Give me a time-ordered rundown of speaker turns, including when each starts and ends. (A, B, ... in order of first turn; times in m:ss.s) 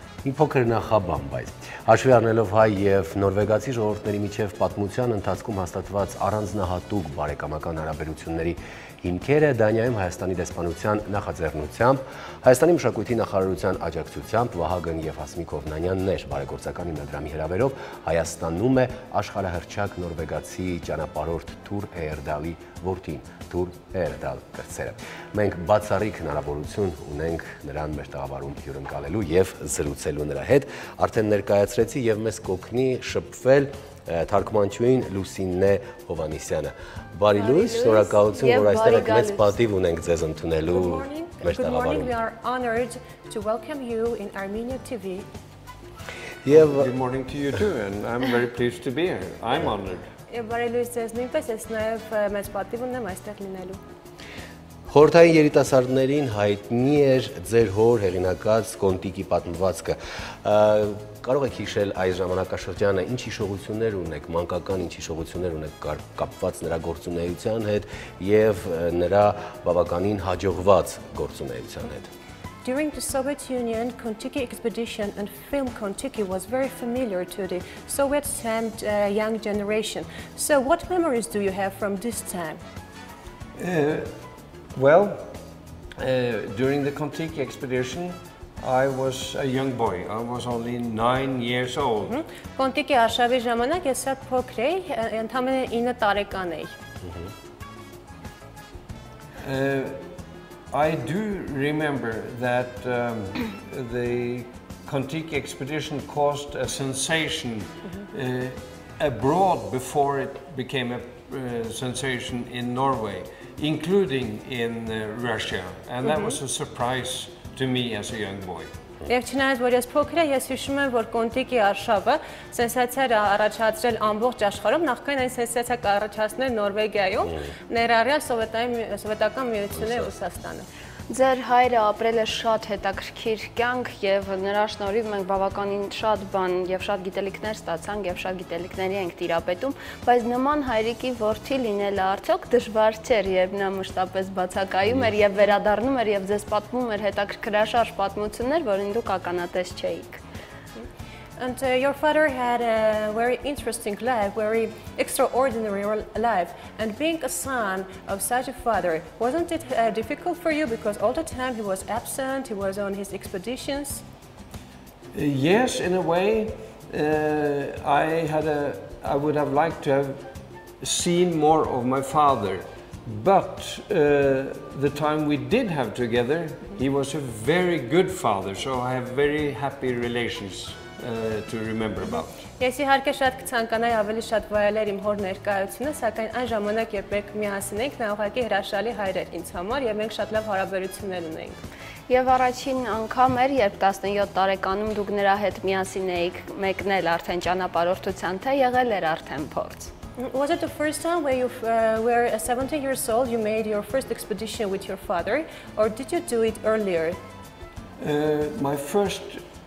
0:00.2-0:42.1 A
0:37.3-0:39.6 B
0:40.7-0:45.2 C
0:46.4-0:46.8 A
0:46.5-0:50.1 D
0:50.3-0:53.8 C
0:54.9-1:12.1 A
1:12.6-1:22.6 C
1:23.6-1:24.1 D
1:24.7-1:25.3 D
1:26.0-1:32.2 D
1:32.0-1:36.7 C
1:39.4-1:40.0 D
1:40.7-1:58.7 D
1:56.0-1:56.3 C
1:59.1-2:10.7 C
2:11.1-2:30.2 B
2:31.4-2:44.0 C
2:45.1-2:50.2 D
2:50.8-3:02.4 D
3:02.6-3:11.6 C
3:12.1-3:19.9 B
3:20.2-3:27.2 C
3:28.0-3:29.4 D